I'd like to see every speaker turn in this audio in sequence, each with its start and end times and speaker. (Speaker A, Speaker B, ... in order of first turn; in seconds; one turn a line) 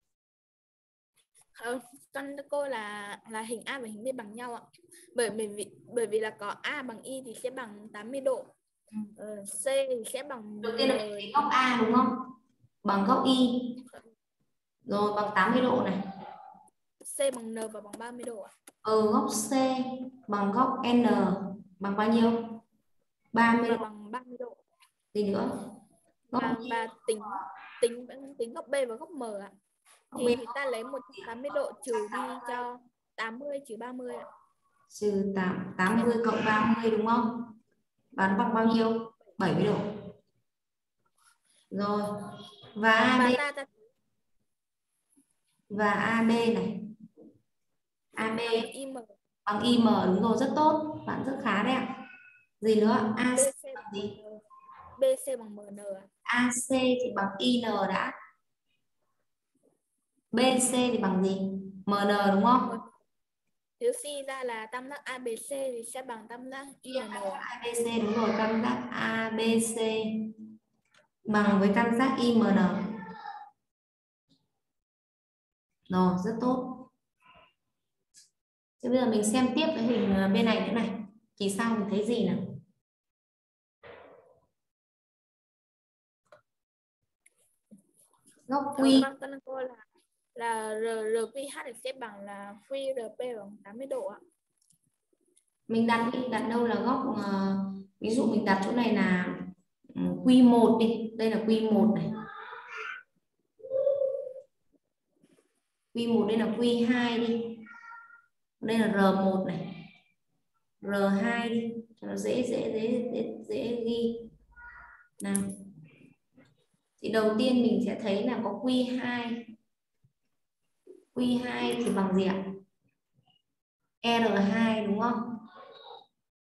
Speaker A: 1.5-8.5
Speaker A: 9.2-11.4
Speaker B: 10.6-12.2
Speaker B: 12.8-13.7
Speaker B: 14.9-16.0
Speaker A: 17.0-18.5
Speaker B: 18.8-22.6
Speaker B: 23.3-23.8
Speaker A: 23.6-24.6
Speaker B: 25.1-25.5
Speaker B: 26.3-26.9
Speaker A: 26.3-29.5
Speaker B: 30.1-30.5
Speaker A: 30.2-34.3
Speaker B: 32.1-32.4
Speaker B: 34.9-37.5
Speaker B: 38.1-39.8
Speaker B: 41.7-43.4
Speaker A: 43.1-43.7
Speaker B: 45.7-46.8
Speaker B: 48.1-48.7
Speaker A: 48.2-49.1
Speaker B: 49.5-51.9
Speaker B: 52.6-54.1
Speaker A: 53.4-54.4
Speaker A: 55.0-56.1
Speaker B: 56.3-58.1
Speaker B: 60.3-62.7
Speaker A: 63.8-67.4
Speaker B: 66.9-70.2
Speaker B: 71.3-72.8
Speaker B: 75.9-76.9
Speaker B: 78.8-82.4
Speaker B: 88.5-89.1
Speaker A: 88.8-89.8
Speaker A: 90.3-94.2
Speaker B: 95.7-102.1
Speaker B: 105.9-107.6
Speaker B: 108.6-109.7
Speaker B: 110.8-114.3
Speaker B: 117.0-119.4
Speaker B: 121.1-122.4
Speaker B: 124.0-125.4